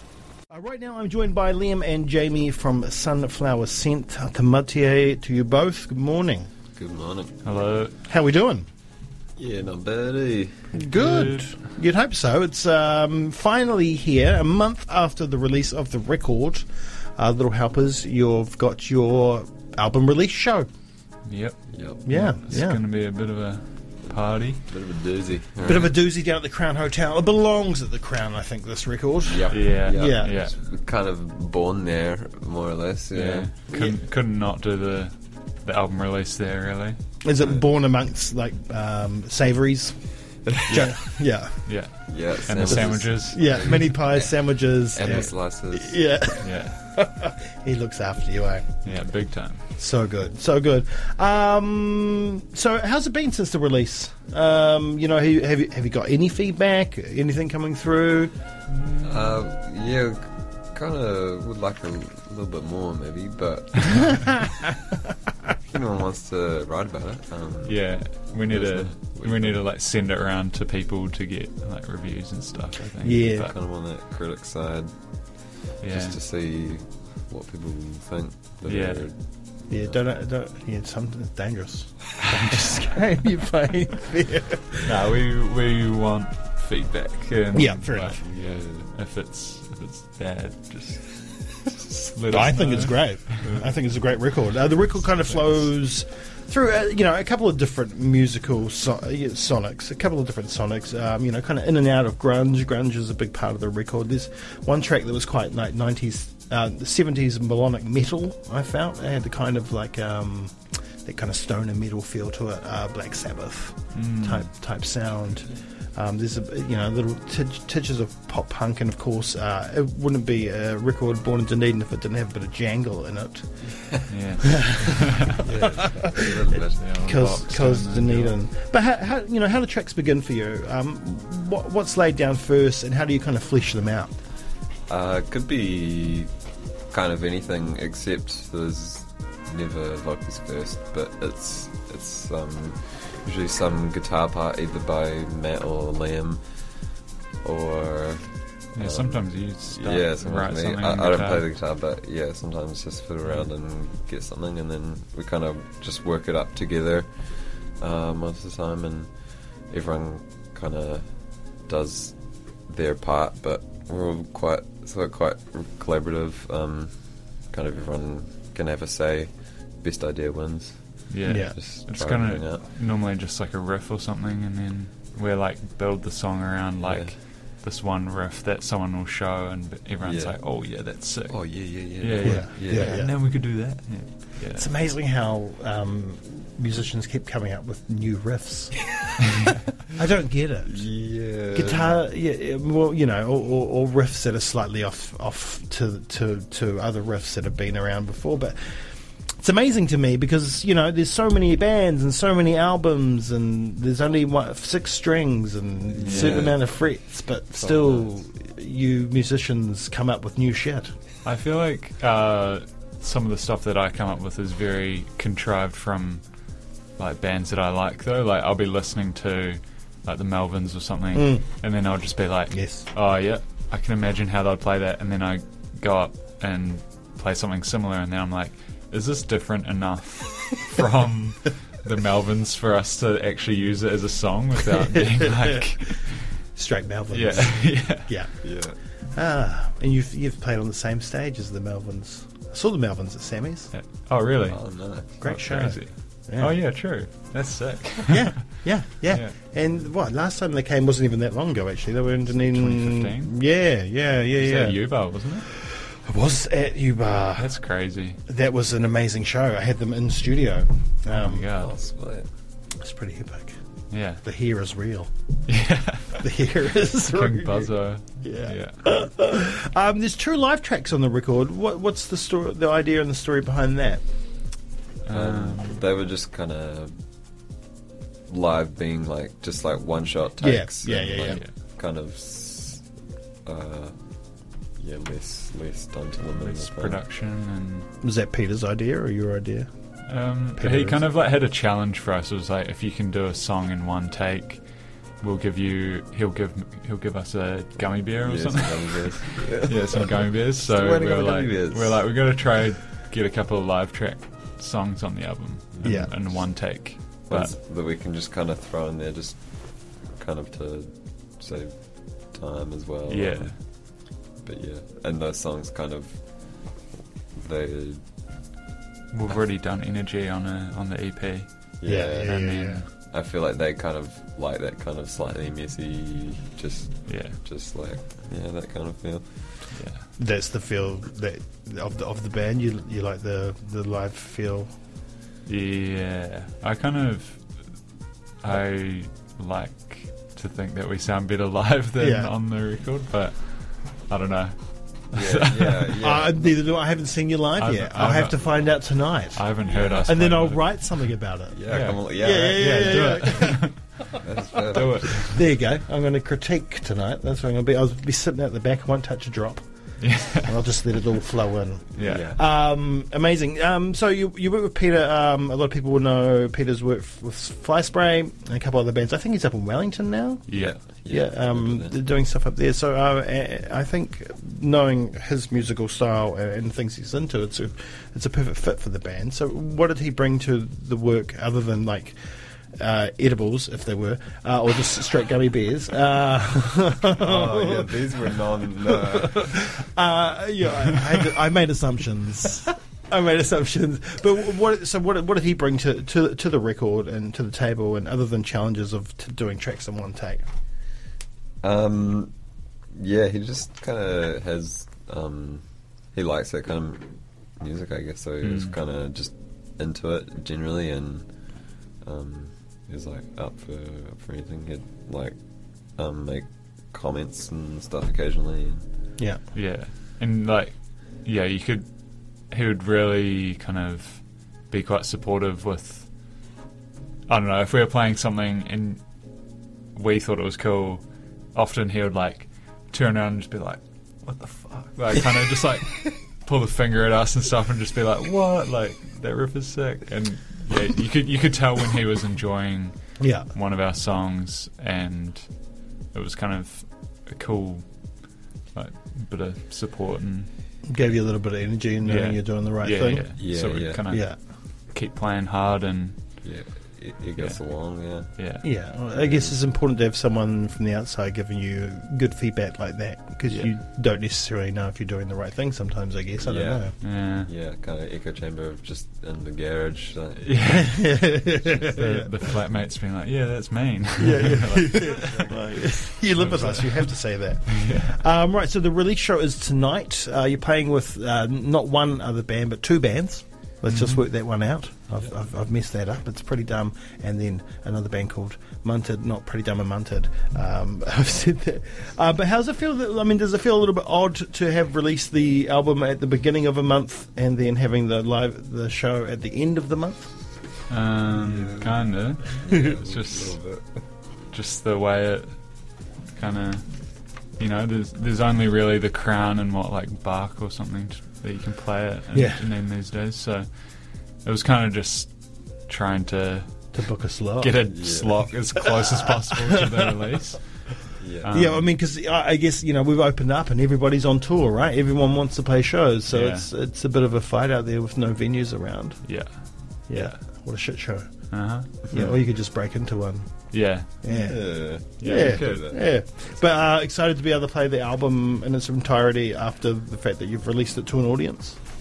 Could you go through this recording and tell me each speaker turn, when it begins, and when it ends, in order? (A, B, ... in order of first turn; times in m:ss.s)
0:00.5-0:06.5 A
0:06.7-0:07.4 B
0:07.4-0:07.9 C
0:08.1-0:08.6 A
0:09.4-0:10.7 B
0:10.7-0:11.6 C
0:10.8-0:20.7 A
0:21.2-0:24.6 C
0:21.7-0:22.1 B
0:22.0-0:22.8 A
0:24.7-0:25.9 B
0:25.6-0:30.3 A
0:29.3-0:34.0 B
0:29.5-0:30.6 C
0:33.1-0:37.0 C
0:37.2-0:40.1 A
0:37.4-0:37.7 B
0:40.5-0:41.2 B
0:40.7-0:41.1 C
0:40.7-0:41.7 A
0:41.6-0:44.0 C
0:42.0-0:46.0 B
0:42.6-0:48.7 A
0:45.0-0:45.3 C
0:46.4-0:46.8 C
0:48.8-0:49.6 C
0:49.8-0:58.3 A
0:58.7-0:59.4 C
0:59.0-1:04.3 B
1:03.9-1:04.2 C
1:05.7-1:09.6 B
1:07.6-1:13.5 C
1:13.0-1:13.5 A
1:13.4-1:14.9 B
1:15.8-1:16.2 C
1:15.8-1:20.0 B
1:18.6-1:19.1 C
1:19.7-1:24.9 A
1:24.8-1:33.7 C
1:27.5-1:28.2 A
1:28.2-1:28.9 B
1:32.3-2:06.3 A
1:35.3-1:35.6 C
1:53.9-1:54.5 C
2:04.1-2:05.8 C
2:05.4-2:07.0 B
2:06.6-2:08.3 C
2:07.0-2:14.1 A
2:14.9-2:16.3 B
2:16.9-2:26.4 B
2:27.4-2:39.1 B
2:28.8-2:31.5 C
2:39.7-2:52.7 B
2:51.1-3:04.7 C
2:51.2-2:51.6 A
2:56.8-2:57.2 B
3:00.0-3:00.4 B
3:01.2-3:03.0 B
3:02.2-3:03.3 A
3:04.5-3:08.8 A
3:09.2-3:09.6 C
3:09.9-3:10.9 A
3:10.6-3:11.9 B
3:11.5-3:18.6 A
3:19.4-3:30.9 A
3:25.9-3:27.0 B
3:26.0-3:26.6 C
3:27.5-3:28.1 B
3:31.2-3:36.2 C
3:37.0-3:56.4 C
3:41.1-3:41.4 A
3:42.5-3:42.8 A
3:56.5-3:58.3 A
3:57.1-3:58.2 C
3:58.4-3:58.8 B
3:59.1-4:03.7 A
4:03.7-4:09.3 C
4:04.4-4:05.2 B
4:05.2-4:06.6 A
4:08.1-4:17.6 A
4:12.3-4:13.3 C
4:14.4-4:15.5 C
4:17.4-4:18.2 C
4:18.3-4:21.5 A
4:21.1-4:21.7 C
4:21.6-4:22.3 B
4:22.8-4:23.6 A
4:23.9-4:24.2 C
4:24.2-4:25.1 A
4:25.5-4:26.3 C
4:26.2-4:34.0 A
4:27.0-4:28.8 C
4:35.0-4:35.8 C
4:35.1-4:36.9 B
4:38.3-4:42.8 B
4:40.4-4:41.4 A
4:41.2-4:41.5 C
4:43.4-4:44.0 B
4:44.8-4:47.1 B
4:46.3-4:47.9 C
4:48.0-4:49.7 A
4:50.1-4:54.6 C
4:50.6-4:51.0 A
4:55.2-5:07.5 C
4:58.2-5:02.0 B
5:05.8-5:16.8 B
5:05.8-5:06.1 A
5:13.1-5:13.6 C
5:17.3-5:18.0 B
5:19.1-5:22.9 C
5:21.8-5:29.5 B
5:21.8-5:22.8 A
5:27.0-5:27.4 C
5:29.7-5:30.0 C
5:30.2-5:34.7 A
5:35.5-5:37.8 C
5:38.4-5:45.9 C
5:42.0-5:42.3 A
5:45.1-5:46.6 B
5:46.0-5:51.6 A
5:47.6-5:51.1 C
5:49.6-5:50.1 B
5:51.5-5:53.2 B
5:51.7-5:55.4 C
5:52.1-5:53.8 A
5:54.1-5:55.2 B
5:54.8-5:59.6 A
6:00.0-6:00.6 C
6:00.4-6:10.5 A
6:02.0-6:02.3 C
6:02.0-6:02.4 B
6:10.5-6:10.9 C
6:10.5-6:12.0 B
6:11.1-6:22.2 A
6:22.8-6:28.0 A
6:27.2-6:29.8 B
6:28.8-6:40.4 A
6:41.6-6:42.3 B
6:42.9-6:51.2 B
6:48.4-6:48.7 C
6:52.0-6:55.4 B
6:55.9-6:58.8 B
6:59.5-7:06.1 C
7:07.3-7:09.0 C
7:09.9-7:25.5 C
7:23.2-7:23.5 A
7:26.0-7:30.5 C
7:30.9-7:33.3 A
7:32.0-7:34.4 C
7:33.3-7:34.0 B
7:34.1-7:34.4 A
7:34.9-7:36.2 C
7:36.4-7:38.4 B
7:37.4-7:38.6 C
7:38.6-7:47.0 A
7:39.1-7:39.6 B
7:46.4-7:50.7 B
7:47.0-7:47.5 C
7:50.4-7:58.2 C
7:50.7-7:52.3 A
7:54.2-8:20.3 A
7:55.0-7:55.8 B
8:03.8-8:04.3 C
8:20.9-8:23.8 C
8:21.4-8:24.0 B
8:24.5-8:25.6 C
8:26.3-8:26.8 C
8:27.5-8:33.6 C
8:32.3-8:32.7 A
8:34.4-8:35.3 C
8:35.9-8:36.8 C
8:36.9-8:37.7 A
8:37.6-8:40.8 C
8:37.9-8:38.5 B
8:41.2-8:41.5 B
8:41.4-8:41.8 C
8:41.5-8:49.3 A
8:46.3-8:46.7 C
8:49.2-8:50.4 C
8:50.1-8:51.3 A
8:51.5-8:52.4 C
8:52.1-8:53.6 A
8:53.7-8:55.9 C
8:54.2-9:01.8 A
8:54.3-8:56.0 B